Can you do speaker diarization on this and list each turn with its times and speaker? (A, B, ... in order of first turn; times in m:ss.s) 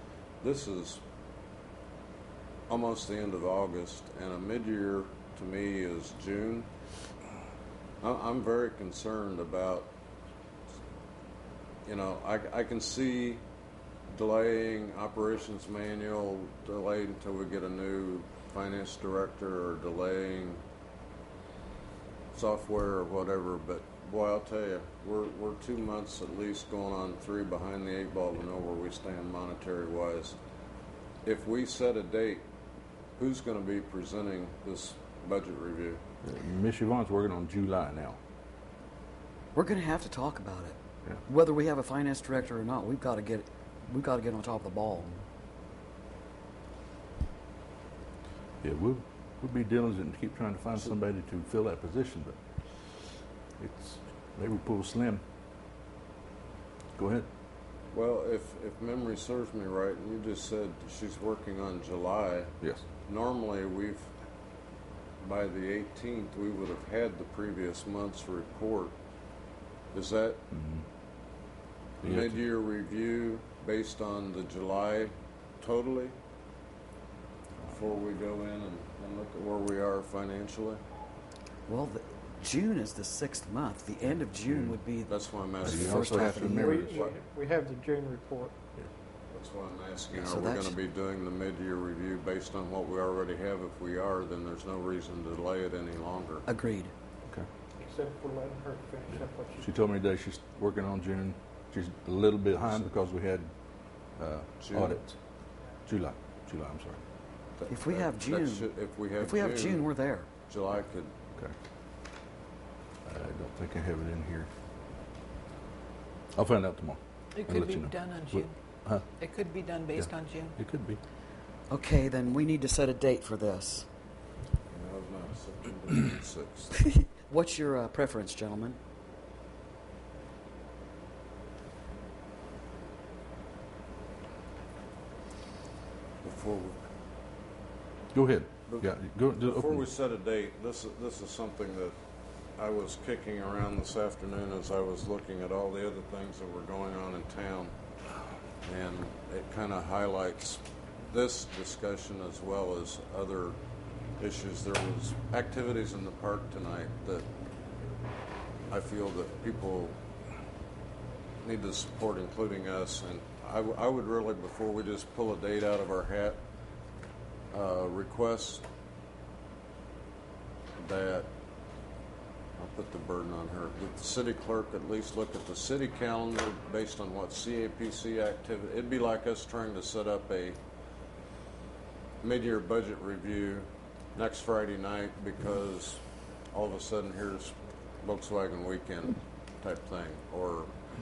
0:00.4-0:01.0 A
0:02.7-0:06.7 A
0:08.0-0:09.9 A
0:11.9-0:13.4 A
0:14.1-0:20.6 A
0:22.3-0:30.4 A
0:31.2-0:32.5 A
0:33.2-0:36.0 A
0:36.2-0:38.2 B
0:39.6-0:45.2 C
0:48.6-0:52.4 B
0:53.6-0:55.2 B
0:57.0-0:57.3 B
0:57.9-1:02.5 A
1:03.0-1:04.1 A
1:05.2-1:09.0 A
1:09.9-1:10.4 A
1:10.5-1:10.8 B
1:12.0-1:16.2 A
1:12.0-1:12.4 B
1:17.7-1:20.8 A
1:21.7-1:25.1 C
1:24.5-1:24.8 B
1:25.1-1:27.2 A
1:25.6-1:27.1 B
1:25.7-1:26.8 C
1:26.5-1:28.6 D
1:29.3-1:36.5 A
1:30.1-1:30.7 C
1:36.5-1:36.9 C
1:37.8-1:39.7 D
1:39.1-1:43.5 B
1:44.2-1:45.2 B
1:44.6-1:45.0 A
1:45.9-1:47.0 B
1:47.6-1:49.9 A
1:47.7-1:50.3 C
1:50.5-1:51.1 A
1:53.1-1:54.5 B
1:56.4-1:59.1 B
1:57.4-1:58.6 E
1:59.2-2:00.6 E
1:59.9-2:01.0 B
2:01.7-2:03.9 C
2:04.7-2:06.9 A
2:07.3-2:08.8 C
2:16.2-2:16.8 A
2:18.1-2:19.8 B
2:18.7-2:22.0 A
2:22.6-2:27.8 A
2:28.6-2:33.6 A
2:34.2-2:37.3 A
2:38.7-2:40.0 A
2:41.4-2:46.4 A
2:47.5-2:48.6 A
2:50.8-2:51.3 A
2:52.6-3:00.6 A
3:02.2-3:10.7 A